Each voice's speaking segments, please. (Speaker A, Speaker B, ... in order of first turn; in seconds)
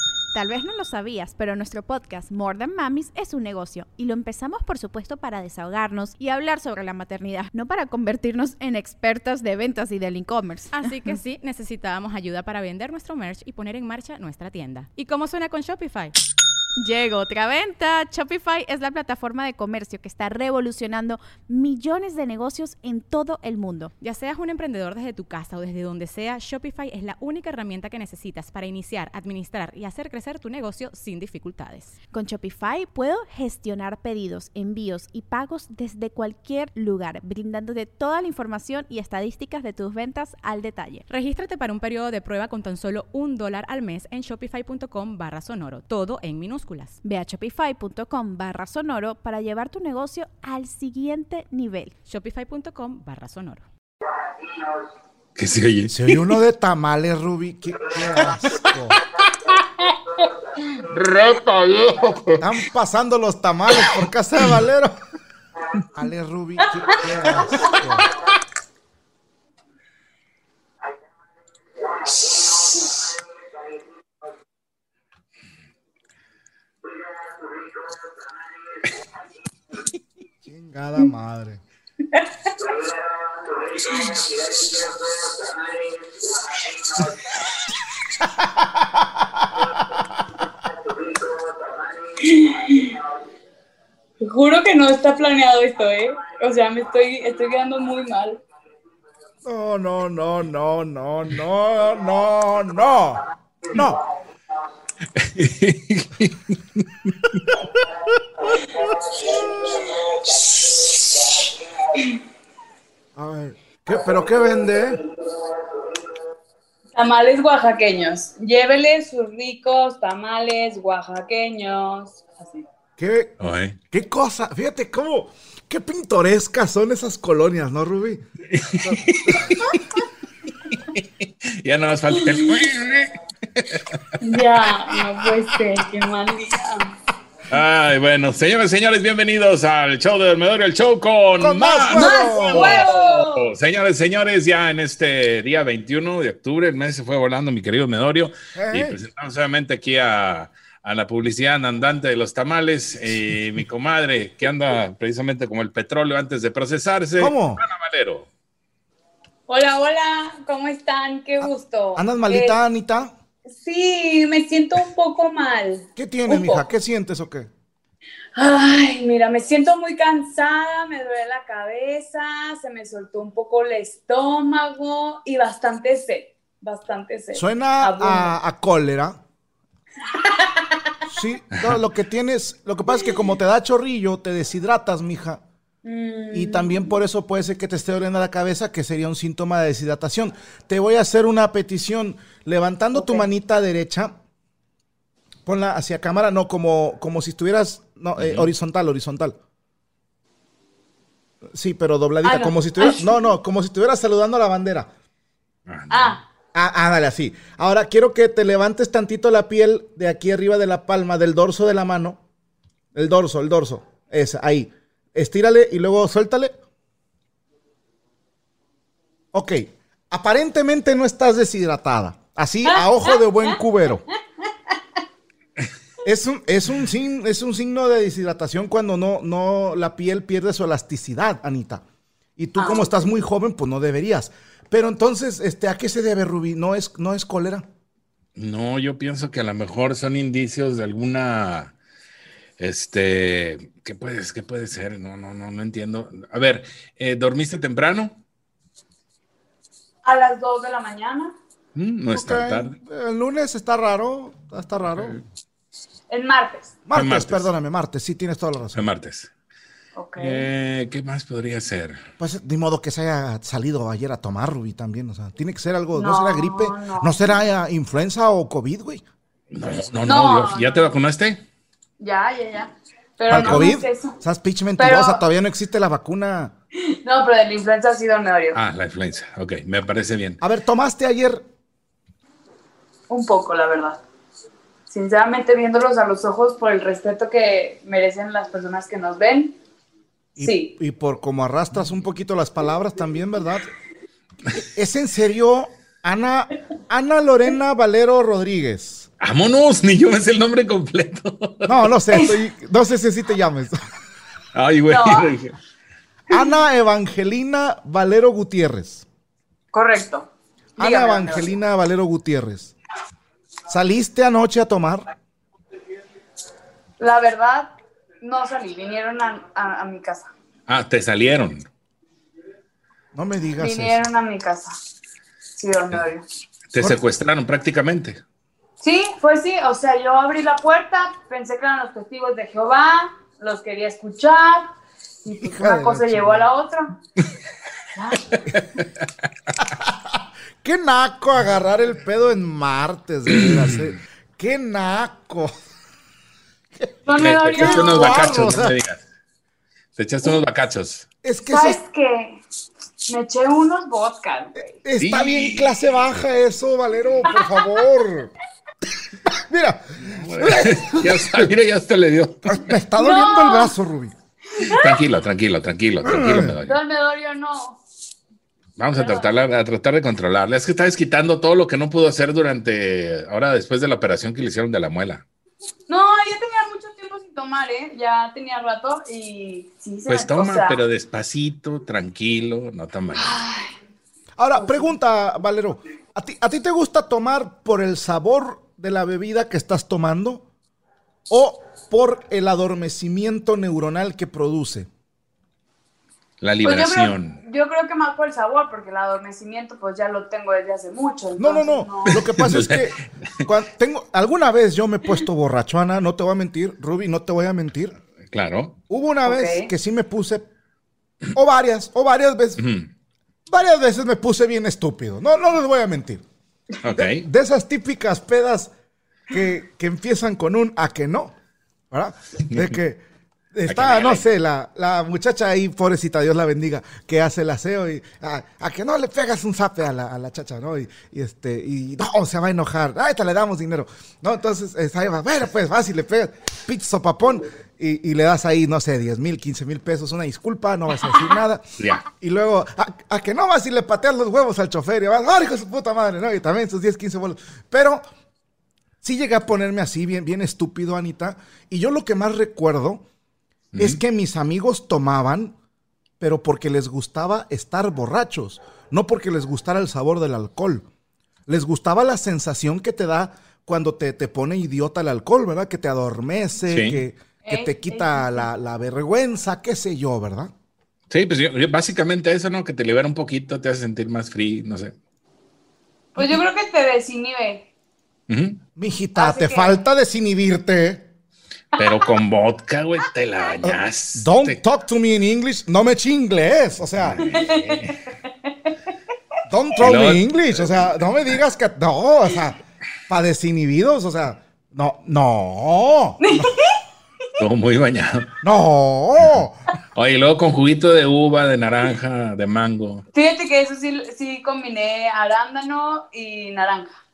Speaker A: 0.3-11.1, 16.8-23.9, 32.1-41.0, 47.0-51.9
Speaker B: 10.7-16.1, 24.0-31.9, 41.1-47.0, 52.0-53.7
Speaker C: 55.4-55.9, 60.9-62.4, 105.2-107.4, 123.4-123.8, 128.5-129.4, 130.7-134.0, 137.5-158.3, 198.2-198.5, 205.7-206.2, 238.3-241.7, 242.6-248.2, 251.7-252.7, 256.9-257.5, 258.7-259.3, 260.2-262.0, 269.5-271.4, 273.3-273.7, 278.5-280.4, 299.2-301.8, 304.5-305.5, 320.7-321.7, 326.7-328.2, 343.3-343.9, 347.2-349.0, 350.0-351.1, 355.0-355.7, 360.1-362.6, 364.6-366.8, 368.8-375.2, 380.1-383.4, 396.4-397.4, 402.1-402.9, 408.3-408.8, 412.6-412.9, 416.8-417.2, 423.7-424.2, 453.7-454.0, 466.7-467.0, 471.1-474.9, 478.3-478.6, 481.8-484.6, 487.0-488.0, 489.8-491.0, 497.4-498.3, 499.9-503.0
Speaker D: 55.9-59.0, 62.4-64.9, 65.9-68.1, 80.4-81.6, 88.6-89.3, 99.4-104.0, 113.2-115.0, 123.0-123.3, 123.9-128.2, 128.7-129.5, 141.4-142.8, 148.5-148.9, 157.2-157.6, 161.9-163.1, 165.9-167.5, 177.3-179.2, 181.1-185.4, 186.3-194.1, 195.4-199.4, 201.5-204.9, 206.5-212.2, 212.9-216.5, 219.3-224.0, 226.0-231.8, 232.4-237.6, 252.1-255.2, 256.9-258.9, 262.2-269.0, 273.3-276.5, 280.4-281.4, 290.4-293.7, 294.7-299.1, 301.6-303.8, 306.3-309.1, 310.8-312.7, 313.7-315.1, 323.1-324.0, 335.4-336.5, 340.6-345.5, 347.5-348.7, 351.2-351.8, 354.8-358.3, 359.3-361.5, 362.5-364.1, 366.0-366.6, 384.4-390.4, 391.3-394.9, 401.4-407.9, 408.9-410.4, 411.3-412.6, 413.5-416.2, 416.9-418.7, 419.3-421.3, 421.9-423.0, 423.5-448.0, 449.0-453.0, 453.8-455.5, 456.2-460.8, 461.5-470.5, 478.8-481.1, 483.6-487.4, 489.5-496.5, 498.4-499.6
Speaker E: 67.6-67.8, 82.1-82.7, 83.8-84.6, 90.9-91.2, 92.1-93.0, 94.2-98.4, 116.9-122.6, 132.2-132.5, 134.2-136.9, 141.9-143.5, 159.5-162.6, 163.4-166.6, 168.3-178.3, 180.1-180.9, 185.8-186.9, 192.9-193.2, 202.2-203.1, 205.9-206.2, 222.7-223.1, 232.6-233.0, 250.0-251.3, 256.1-256.7, 259.9-260.4, 265.9-267.4, 270.0-270.9, 272.0-274.1, 274.8-275.2, 276.8-278.6, 283.1-284.0, 284.9-289.6, 290.4-290.7, 304.9-305.3, 309.7-311.6, 317.0-320.3, 323.6-324.8, 325.6-326.2, 328.8-334.7, 335.2-336.9, 337.9-338.4, 347.1-348.5, 351.5-352.4, 353.1-354.7, 357.3-357.6, 363.0-363.7, 364.6-365.0, 366.7-367.8, 368.9-369.3, 375.9-380.8, 383.1-383.7, 384.6-384.9, 396.6-402.3, 409.2-409.7, 467.4-468.4, 476.1-477.7, 479.2-479.7, 487.3-488.7, 496.2-496.8, 503.1-506.9